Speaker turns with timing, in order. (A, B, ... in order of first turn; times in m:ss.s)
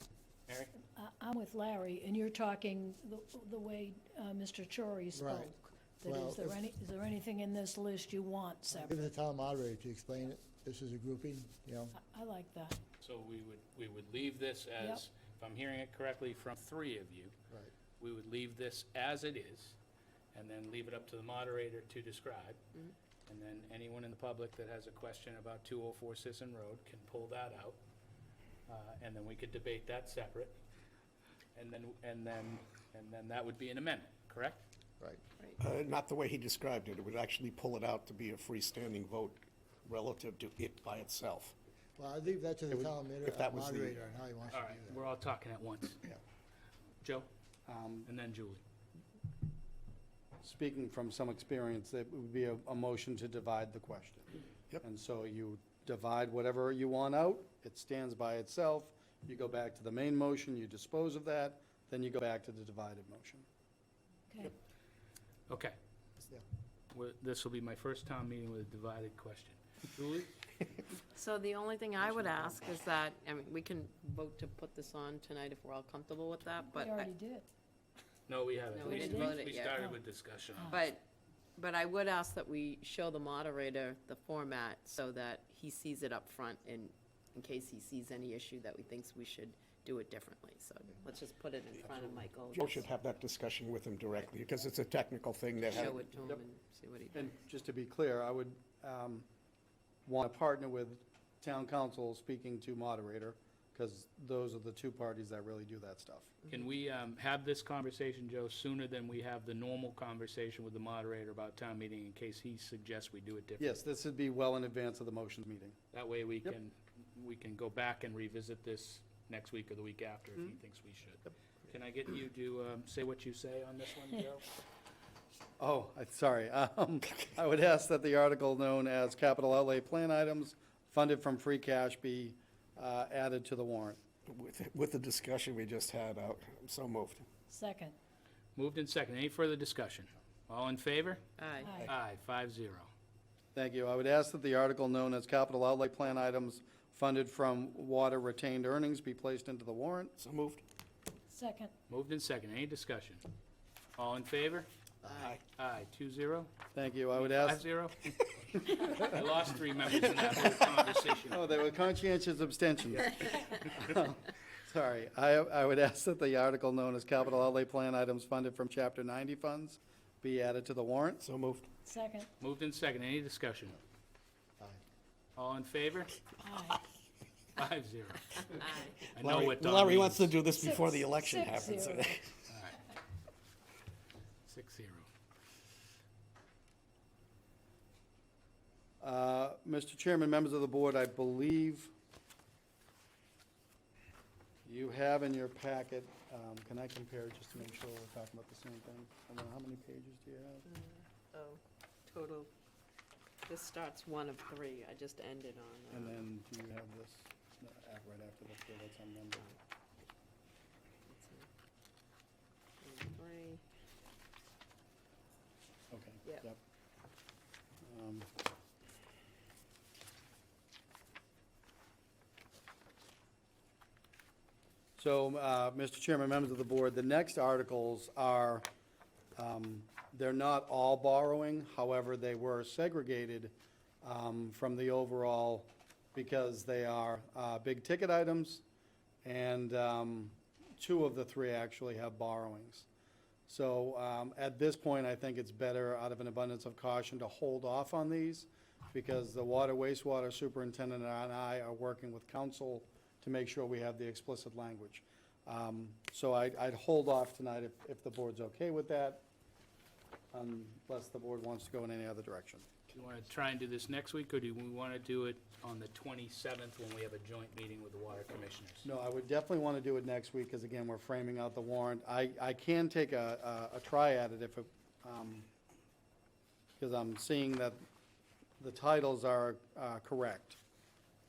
0:00.5-0:00.7 A
0:00.8-0:09.1 B
0:05.1-0:06.6 C
0:08.7-0:11.9 C
0:11.9-0:12.8 B
0:13.0-0:17.3 A
0:14.8-0:15.0 B
0:18.0-0:19.8 A
0:20.3-0:22.6 A
0:23.3-0:27.8 A
0:28.7-0:30.6 A
0:31.6-0:34.6 A
0:35.6-0:41.5 D
0:42.0-0:45.0 C
0:42.7-0:44.0 D
0:44.5-0:46.0 A
0:47.0-0:47.3 A
0:47.6-0:48.1 E
0:48.0-0:48.6 A
0:50.4-0:54.3 E
0:54.8-1:03.4 E
1:04.3-1:04.5 B
1:05.5-1:05.7 A
1:06.9-1:10.4 A
1:11.1-1:17.1 F
1:16.6-1:17.5 B
1:18.3-1:20.8 A
1:18.7-1:19.9 F
1:18.8-1:20.0 B
1:20.6-1:20.8 B
1:20.7-1:21.0 F
1:21.6-1:33.0 F
1:32.5-1:36.0 D
1:35.7-1:37.3 F
1:37.1-1:39.2 E
1:40.0-1:46.4 E
1:46.5-1:53.8 A
1:53.6-1:55.8 E
1:55.9-2:04.5 A
2:05.6-2:14.0 E
2:14.2-2:17.2 D
2:17.5-2:17.9 B
2:18.6-2:21.3 A
2:21.4-2:21.9 F
2:21.6-2:21.9 B
2:21.8-2:22.9 A
2:23.5-2:30.1 E
2:30.2-2:30.6 D
2:31.3-2:31.7 B
2:31.9-2:33.2 A
2:34.0-2:34.7 A
2:35.0-2:35.4 D
2:35.6-2:36.5 A
2:36.7-2:37.6 E
2:37.1-2:41.4 A
2:38.8-2:39.1 E
2:41.3-2:51.2 E
2:51.2-2:51.7 D
2:51.8-2:52.3 B
2:52.4-2:53.8 A
2:55.4-2:56.2 A
2:56.4-2:56.8 B
2:57.6-3:00.4 A
2:59.2-3:02.4 D
3:00.5-3:02.2 B
3:02.5-3:02.8 A
3:04.4-3:05.1 A
3:09.0-3:11.9 E
3:14.6-3:20.6 E
3:20.6-3:22.5 F
3:23.4-3:26.2 F
3:25.9-3:29.4 E
3:31.0-3:31.5 F
3:32.8-3:33.6 F
3:35.9-3:36.6 E
3:37.8-3:38.3 E
3:45.0-3:48.7 E
3:49.3-3:58.6 E
3:59.2-4:02.8 E
4:03.5-4:19.2 E
4:20.3-4:22.7 E
4:22.9-4:28.8 A
4:28.8-4:35.5 E
4:36.8-4:37.8 E
4:38.6-4:40.6 E